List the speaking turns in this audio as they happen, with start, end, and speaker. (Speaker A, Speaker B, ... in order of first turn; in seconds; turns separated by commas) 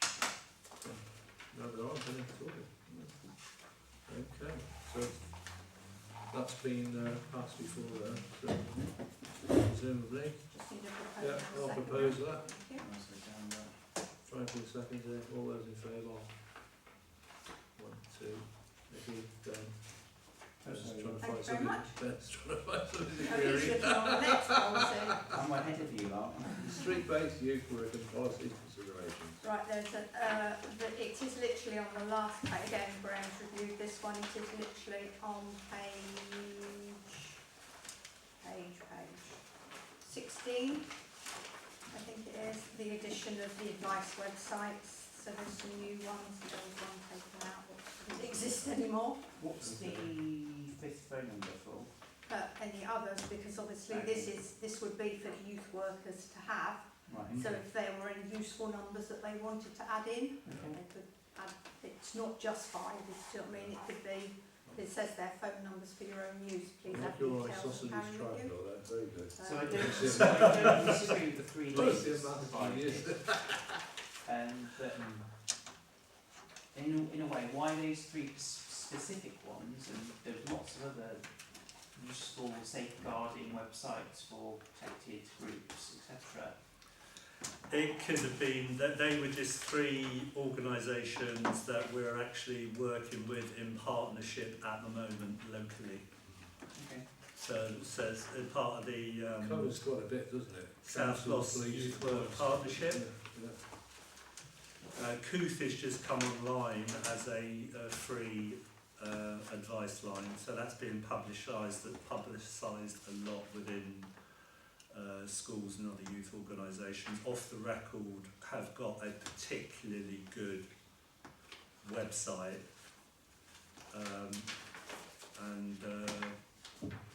Speaker A: 0.8-12.5, Speaker B: 10.5-12.8, Speaker C: 11.9-13.8, Speaker A: 14.2-16.4, Speaker A: 17.7-24.4, Speaker C: 20.6-21.2, Speaker B: 21.2-22.0, Speaker B: 23.2-25.4, Speaker C: 25.3-26.8, Speaker A: 25.3-29.4, Speaker B: 29.4-37.4, Speaker B: 38.4-39.4, Speaker B: 40.0-40.9, Speaker B: 41.9-49.3, Speaker C: 49.4-51.9, Speaker A: 49.6-50.1, Speaker B: 52.2-70.7, Speaker C: 53.9-54.5, Speaker C: 57.1-57.4, Speaker A: 57.2-57.6, Speaker C: 60.4-60.8, Speaker A: 60.5-60.7, Speaker A: 66.9-73.8, Speaker C: 69.4-75.3, Speaker C: 76.7-86.6, Speaker D: 87.7-96.1, Speaker C: 96.7-97.1, Speaker D: 97.2-100.0, Speaker A: 99.3-103.7, Speaker D: 100.8-103.1, Speaker D: 104.9-114.1, Speaker D: 114.9-120.7, Speaker D: 121.8-122.6, Speaker D: 123.9-124.5, Speaker D: 125.3-126.3